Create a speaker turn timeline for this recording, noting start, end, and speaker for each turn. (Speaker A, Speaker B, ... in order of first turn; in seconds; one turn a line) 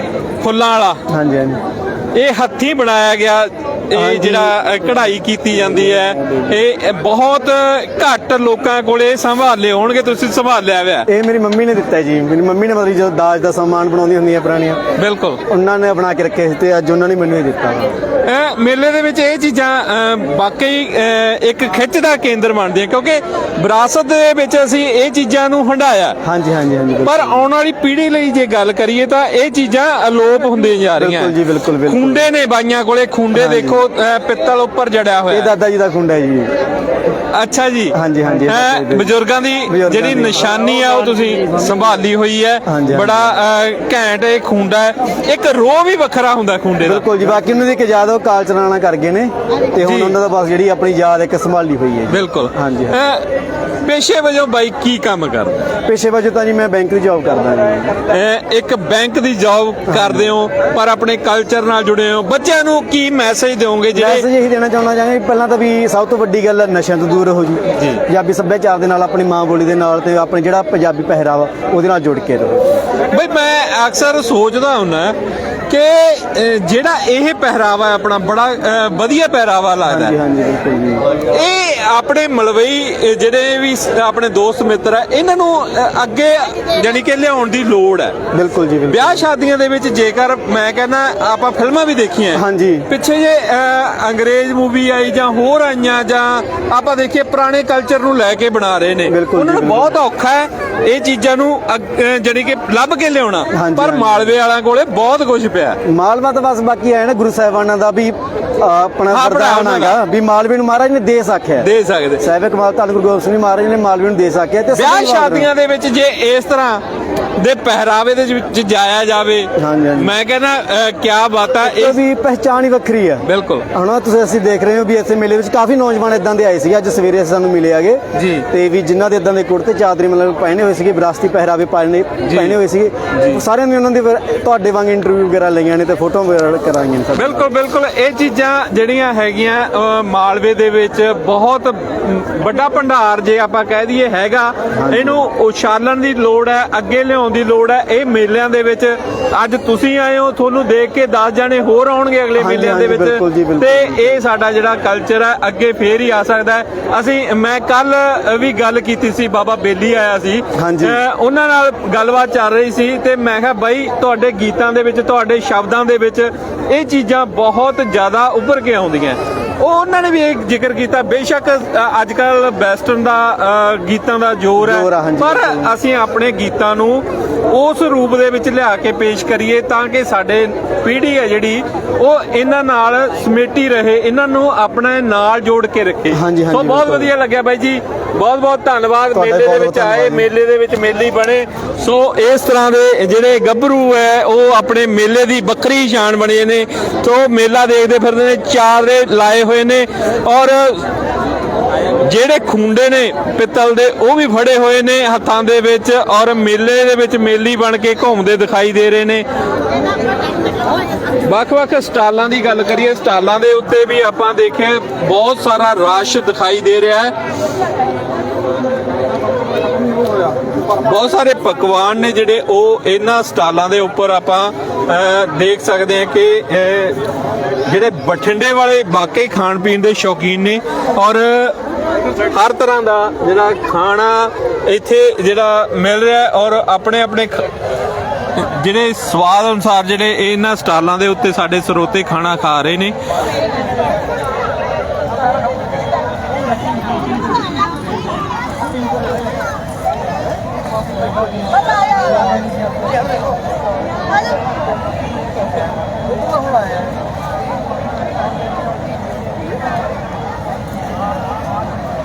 Speaker A: 0.4-1.0
Speaker B: 1.1-1.6
Speaker A: 2.1-11.1
Speaker B: 3.9-4.6
Speaker B: 11.1-14.8
Speaker A: 15.0-15.4
Speaker B: 15.5-17.9
Speaker A: 18.2-26.2
Speaker B: 26.2-27.5
Speaker A: 27.0-31.3
Speaker B: 31.0-32.2
Speaker A: 31.9-35.5
Speaker B: 33.3-33.8
Speaker B: 35.3-36.5
Speaker A: 37.3-47.4
Speaker B: 37.9-39.1
Speaker B: 39.7-40.5
Speaker B: 42.6-43.4
Speaker B: 46.8-53.0
Speaker A: 49.8-50.1
Speaker A: 52.1-53.3
Speaker A: 53.8-55.6
Speaker B: 55.8-57.9
Speaker A: 58.1-64.2
Speaker B: 59.9-60.3
Speaker B: 63.9-72.8
Speaker A: 67.8-68.0
Speaker A: 73.1-75.1
Speaker A: 75.7-80.2
Speaker B: 79.8-81.1
Speaker A: 81.2-88.2
Speaker B: 88.3-89.2
Speaker A: 88.9-105.8
Speaker B: 92.3-92.9
Speaker B: 99.1-99.9
Speaker B: 103.5-104.3
Speaker B: 105.8-115.5
Speaker A: 109.1-110.0
Speaker A: 111.6-112.2
Speaker A: 114.7-116.8
Speaker A: 117.4-122.0
Speaker B: 119.6-120.1
Speaker B: 121.6-137.5
Speaker A: 123.2-123.6
Speaker A: 128.1-128.4
Speaker A: 132.2-132.6
Speaker A: 133.1-133.4
Speaker A: 137.1-200.8
Speaker B: 144.7-145.2
Speaker B: 152.4-154.2
Speaker B: 160.6-161.0
Speaker B: 174.6-175.7
Speaker B: 186.1-187.1
Speaker B: 189.1-190.3
Speaker A: 202.0-209.2
Speaker A: 211.2-217.1
Speaker A: 220.8-227.0
Speaker A: 227.7-231.6
Speaker A: 232.3-237.4
Speaker A: 238.4-242.9